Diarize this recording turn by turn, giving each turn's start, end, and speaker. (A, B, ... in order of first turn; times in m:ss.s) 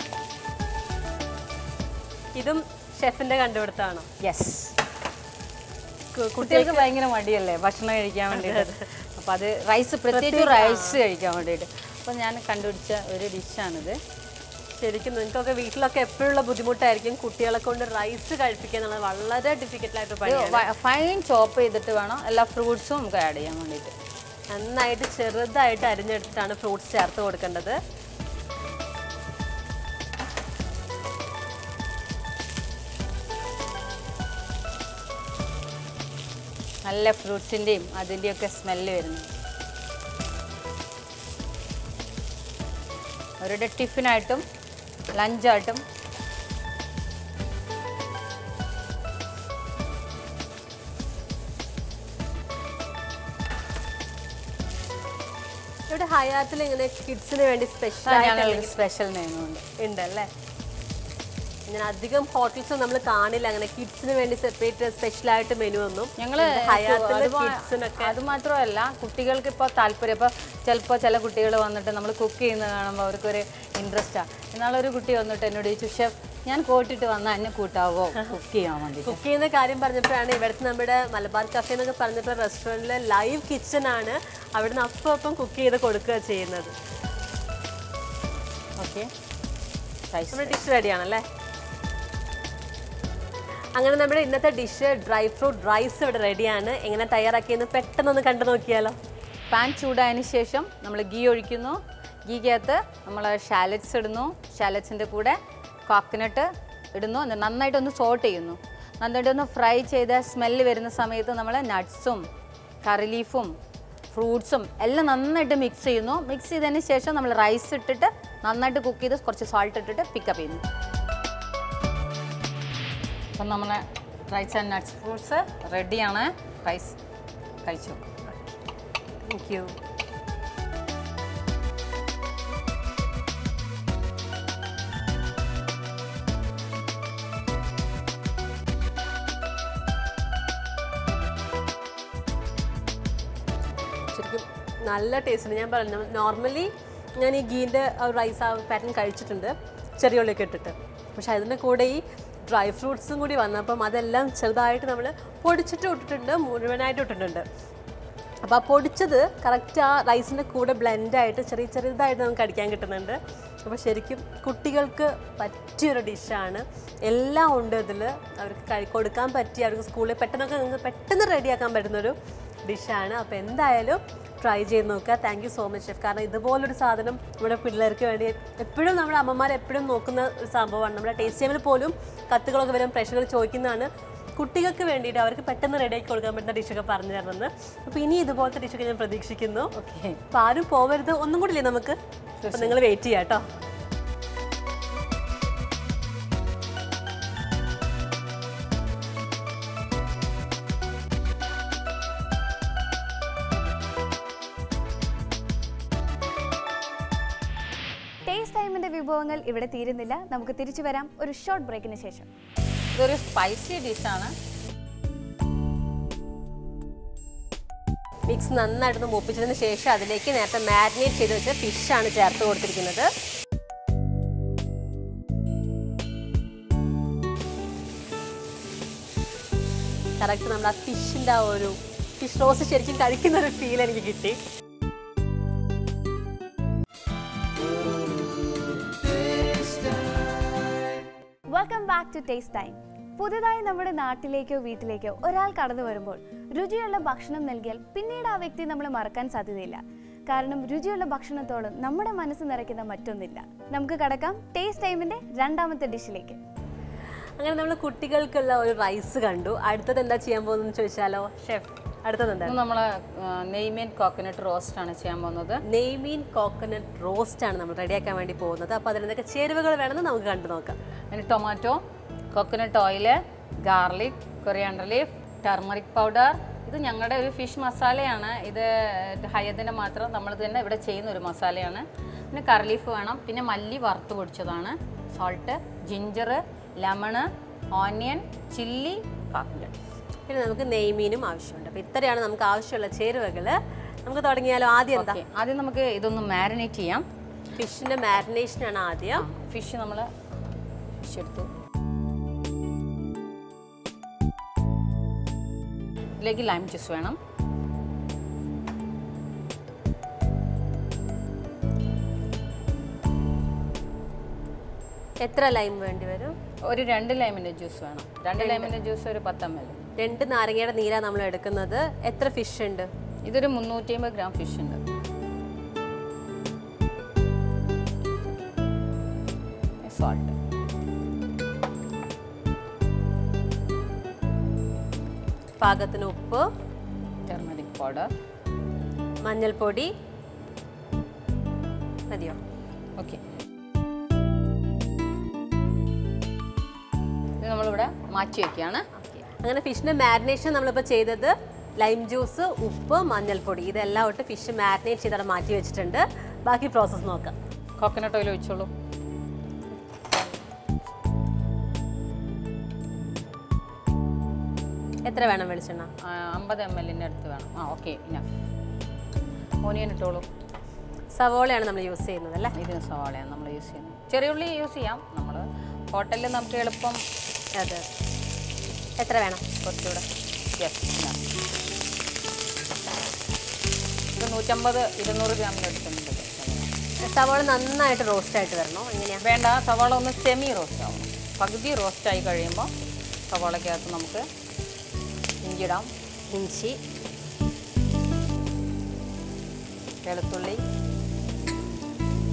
0:02.4-0:04.1 A
0:04.2-0:04.8 B
0:06.1-0:06.8 A
0:06.4-0:14.0 B
0:08.3-0:08.8 A
0:10.1-0:11.0 A
0:14.7-0:20.6 A
0:20.2-0:23.9 B
0:24.5-0:27.8 A
0:36.8-0:39.3 B
0:43.4-0:44.4 B
0:45.1-0:45.8 B
0:55.9-0:58.7 A
0:58.0-0:59.6 B
0:59.8-1:00.3 A
1:01.7-1:08.2 A
1:06.2-1:19.2 B
1:19.0-1:26.7 A
1:28.8-1:29.1 B
1:30.1-1:30.6 B
1:30.3-1:31.2 A
1:33.8-1:39.0 A
1:39.5-1:52.3 B
1:52.8-1:53.6 B
1:54.1-2:00.6 B
2:03.3-2:07.0 B
2:07.6-2:08.1 B
2:09.2-2:09.7 A
2:24.1-2:37.4 A
2:38.4-3:09.7 A
3:09.8-3:10.2 B
3:10.3-3:12.0 A
3:12.4-3:12.8 B
3:12.5-3:13.4 A
3:28.2-3:32.3 C
3:32.9-3:34.3 B
3:38.3-3:43.1 A
3:50.2-3:54.4 A
4:01.5-4:16.4 C
4:17.4-4:22.6 A
4:22.4-4:25.6 B
4:25.6-4:30.8 A
4:31.1-4:31.8 B
4:32.3-4:49.7 B
4:50.3-4:55.2 A
4:54.9-4:57.0 B
4:57.6-4:59.2 A
4:59.2-5:00.1 B
5:01.0-5:01.5 B
5:06.2-5:07.2 B
5:15.2-5:16.3 A
5:16.7-5:19.8 B
5:18.4-5:18.7 A
5:20.0-5:22.9 A
5:23.2-5:24.8 B
5:29.8-5:30.3 B
5:35.6-5:36.4 A
5:37.3-5:38.1 B
5:39.2-5:39.9 A
5:42.1-5:42.4 A
5:47.4-5:48.8 B
5:48.9-5:57.3 A
5:57.8-5:58.7 B
6:00.0-6:00.4 A
6:05.0-6:05.9 A
6:06.0-6:08.2 B
6:09.6-6:10.3 B
6:11.1-6:12.6 A
6:12.5-6:17.0 B
6:17.6-6:17.8 A
6:19.0-6:19.4 A
6:19.6-6:20.0 B
6:20.6-6:21.2 B
6:24.2-6:26.7 B
6:27.0-6:29.3 A
6:29.2-6:32.7 B
6:33.3-6:34.2 B
6:35.4-6:35.9 B
6:36.3-6:36.8 A
6:40.0-6:40.6 B